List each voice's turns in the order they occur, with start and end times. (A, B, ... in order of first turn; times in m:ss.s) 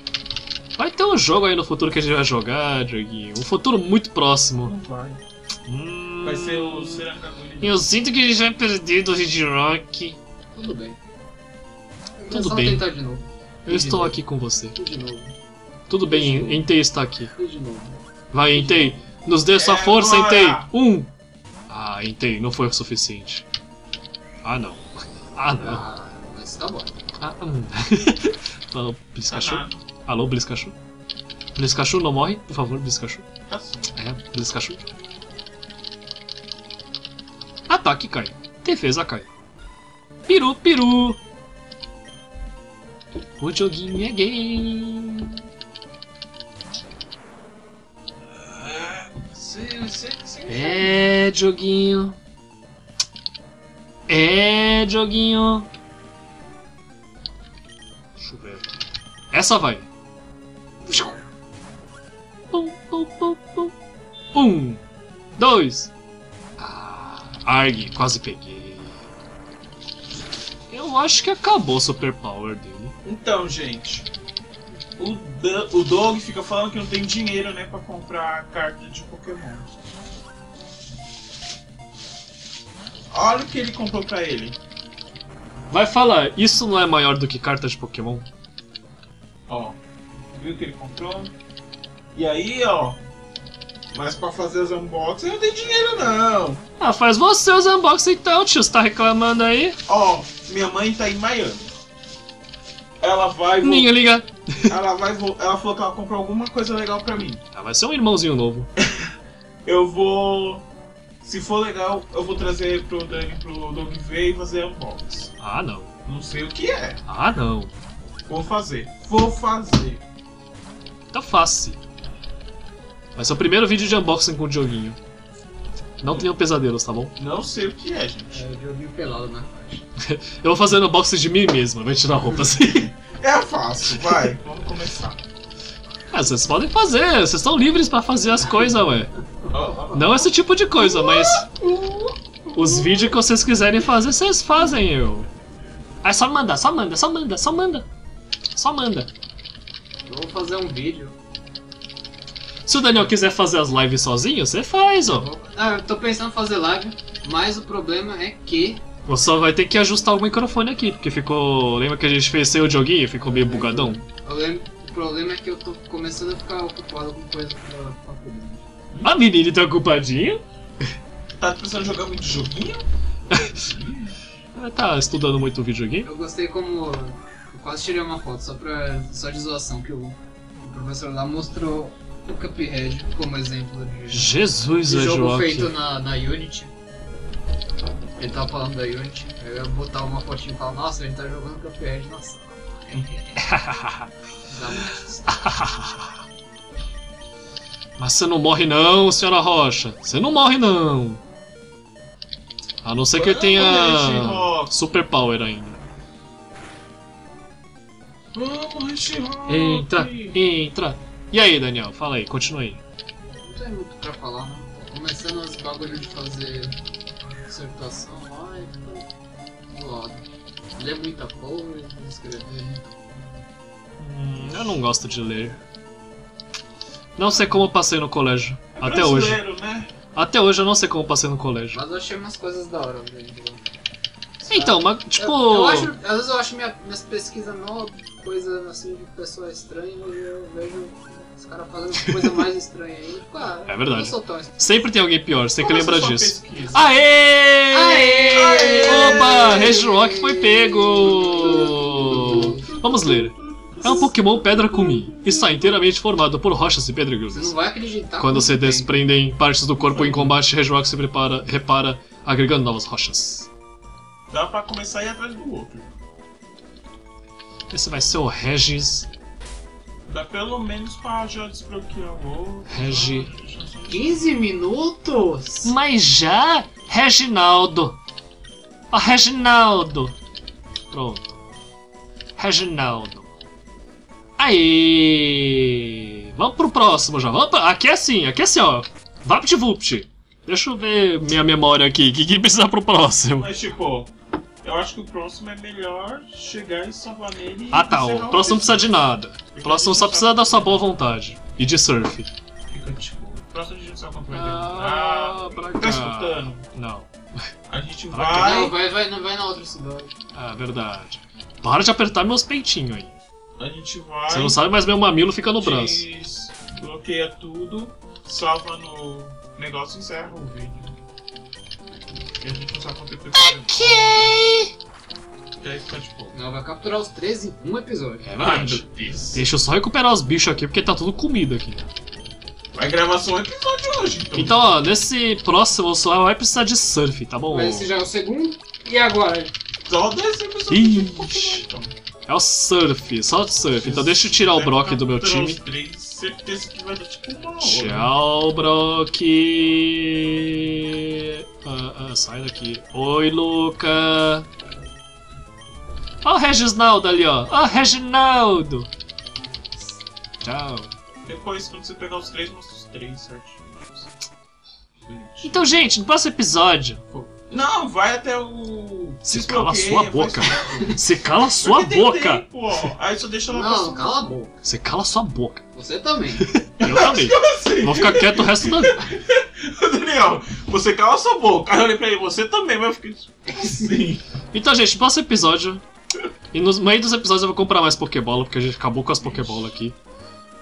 0:00.8-0:04.7 A
0:04.6-0:05.2 B
0:05.7-0:07.1 A
0:06.2-0:07.8 B
0:07.6-0:10.2 A
0:10.5-0:11.0 C
0:12.2-0:14.2 C
0:12.3-0:12.8 A
0:13.6-0:14.8 A
0:14.7-0:15.4 C
0:15.9-0:17.3 A
0:16.1-0:16.8 C
0:17.3-0:18.0 C
0:18.3-0:21.1 A
0:18.5-0:19.0 C
0:19.5-0:20.7 B
0:21.7-0:23.4 A
0:24.4-0:24.8 A
0:25.4-0:25.8 A
0:25.6-0:27.0 C
0:27.2-0:30.8 A
0:29.3-0:29.8 B
0:31.6-0:33.2 A
0:33.5-0:34.0 B
0:34.0-0:34.8 A
0:37.7-0:39.3 A
0:40.3-0:41.2 A
0:43.4-0:45.3 A
0:48.3-0:50.9 B
0:50.5-0:52.2 A
0:54.1-0:55.7 A
0:58.2-0:58.7 A
0:59.3-0:59.9 A
1:00.8-1:01.2 C
1:02.5-1:03.7 A
1:04.3-1:04.8 A
1:05.4-1:05.9 A
1:06.6-1:09.0 A
1:10.7-1:13.0 A
1:13.0-1:14.1 B
1:15.0-1:19.7 B
1:23.1-1:24.6 B
1:25.7-1:28.3 A
1:29.5-1:29.8 B
1:30.3-1:31.3 B
1:32.1-1:33.0 B
1:33.9-1:36.6 B
1:36.8-1:39.8 A
1:39.9-1:41.7 B
1:43.0-1:44.0 B
1:43.6-1:44.8 A
1:44.7-1:47.4 B
1:47.5-1:48.7 A
1:48.8-1:49.0 B
1:49.6-1:50.6 B
1:51.2-1:55.3 B
1:55.4-1:55.9 A
1:56.1-1:57.0 B
1:57.1-1:57.7 A
1:58.3-2:00.0 B
2:01.1-2:01.8 A
2:03.2-2:05.0 A
2:06.0-2:07.1 A
2:07.2-2:08.4 B
2:08.3-2:09.8 C
2:10.1-2:12.9 A
2:13.1-2:15.2 B
2:16.1-2:19.1 A
2:19.5-2:20.2 B
2:19.9-2:21.5 A
2:20.8-2:22.8 B
2:22.5-2:25.3 A
2:26.0-2:27.9 A
2:28.6-2:29.1 A
2:30.1-2:31.2 C
2:32.6-2:35.3 A
2:35.1-2:38.8 C
2:39.1-2:44.0 A
2:43.2-2:48.6 C
2:49.0-2:50.4 A
2:51.4-2:52.8 B
2:53.3-2:53.6 A
2:53.6-2:54.2 B
2:54.6-2:56.1 A
2:56.0-3:06.7 C
3:04.1-3:05.7 A
3:08.2-3:13.2 C
3:13.4-3:14.1 A
3:14.5-3:15.4 C
3:15.3-3:16.0 A
3:18.0-3:21.2 A
3:22.8-3:25.8 A
3:23.1-3:24.7 B
3:28.3-3:30.4 B
3:29.5-3:32.8 A
3:33.4-3:36.8 C
3:37.4-3:39.1 C
3:39.7-3:40.2 C
3:40.8-3:43.4 C
3:44.0-3:45.6 A
3:47.2-3:49.4 A
3:48.8-3:49.9 B
3:50.1-3:51.8 A
3:51.7-3:53.8 C
3:54.5-3:55.9 A
3:54.5-4:04.8 C
4:03.7-4:17.6 A
4:05.6-4:06.9 B
4:07.7-4:12.7 C
4:08.3-4:09.7 B
4:12.1-4:12.8 B
4:17.3-4:19.0 C
4:18.2-4:23.5 A
4:19.9-4:20.4 B
4:24.3-4:25.9 B
4:27.7-4:29.1 A
4:30.1-4:34.3 B
4:32.7-4:33.3 A
4:33.9-4:35.7 C
4:35.6-4:38.0 A
4:38.9-4:40.1 A
4:40.9-4:41.4 A
4:42.4-4:43.3 A
4:44.4-4:53.5 A
4:53.4-4:54.1 B
4:54.6-5:00.9 B
4:57.7-5:02.3 A
5:02.7-5:06.7 B
5:04.3-5:07.1 A
5:07.7-5:08.8 B
5:08.1-5:08.7 A
5:08.3-5:10.1 C
5:10.4-5:13.1 A
5:13.6-5:14.6 B
5:14.3-5:16.0 A
5:15.6-5:21.0 B
5:22.4-5:24.5 B
5:23.4-5:24.7 A
5:25.6-5:26.4 B
5:26.3-5:28.3 C
5:28.2-5:31.9 A
5:28.4-5:29.4 B
5:32.7-5:34.7 B
5:34.3-5:37.9 A
5:37.5-5:39.5 C
5:39.9-5:41.9 B
5:40.7-5:41.7 A
5:42.3-5:45.6 A
5:43.8-5:48.1 B
5:47.6-5:54.5 A
5:56.2-5:58.9 A
6:00.4-6:00.9 A
6:01.2-6:04.1 B
6:05.1-6:05.8 B
6:05.4-6:07.0 A
6:07.1-6:11.0 B
6:09.2-6:12.4 A
6:10.6-6:11.0 C
6:11.6-6:14.3 B
6:13.5-6:14.5 C
6:14.6-6:15.6 A
6:15.8-6:16.5 C
6:16.4-6:19.0 A
6:16.8-6:24.2 B
6:24.5-6:25.8 A
6:26.5-6:30.0 A